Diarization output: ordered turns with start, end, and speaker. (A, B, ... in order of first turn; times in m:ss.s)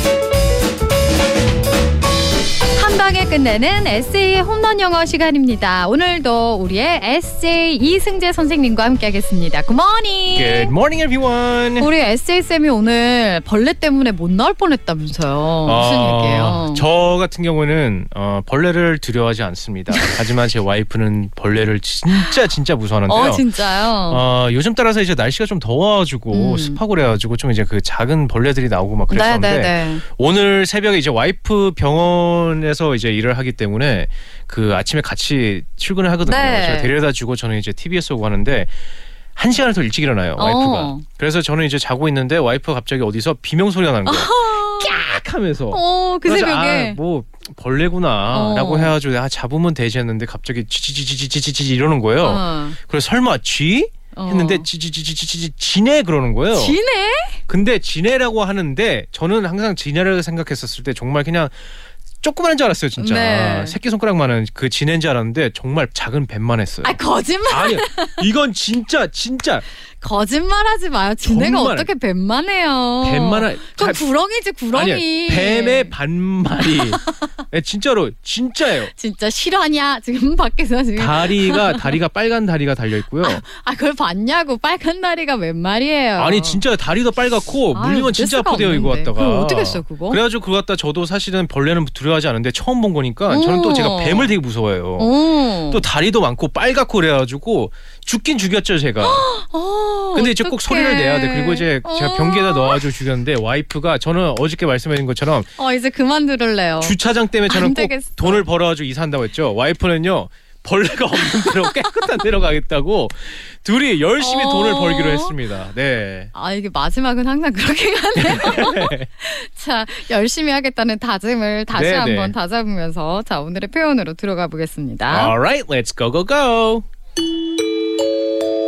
0:02.7-0:10.7 A
0:10.3-0:11.9 B
0:11.8-0:16.8 A
0:15.6-0:23.5 B
0:19.9-0:20.2 A
0:23.1-0:24.2 A
0:24.0-0:38.7 B
0:26.3-0:26.8 A
0:29.1-0:30.0 A
0:36.2-0:36.9 A
0:39.4-0:56.8 B
0:40.4-0:41.0 A
0:44.0-0:44.9 A
0:45.7-0:47.0 A
0:48.3-0:49.0 A
0:52.2-0:52.8 A
0:54.1-0:54.7 A
0:56.5-0:57.4 A
0:57.5-1:01.5 B
1:02.2-1:09.6 B
1:03.0-1:03.8 A
1:06.8-1:08.2 A
1:10.0-1:15.9 A
1:11.2-1:11.9 B
1:13.0-1:14.0 B
1:14.7-1:18.9 B
1:16.7-1:17.3 A
1:18.9-1:22.0 A
1:21.0-1:23.4 B
1:23.2-1:26.6 A
1:26.2-1:35.1 B
1:27.7-1:30.2 A
1:33.3-1:34.4 A
1:35.0-1:35.8 A
1:35.7-1:39.3 B
1:39.0-1:42.8 A
1:40.1-1:45.5 B
1:45.6-1:48.4 A
1:46.8-1:56.3 B
1:54.2-1:55.4 A
1:56.3-2:05.3 A
1:58.2-1:59.0 B
2:01.7-2:02.3 B
2:05.1-2:06.8 B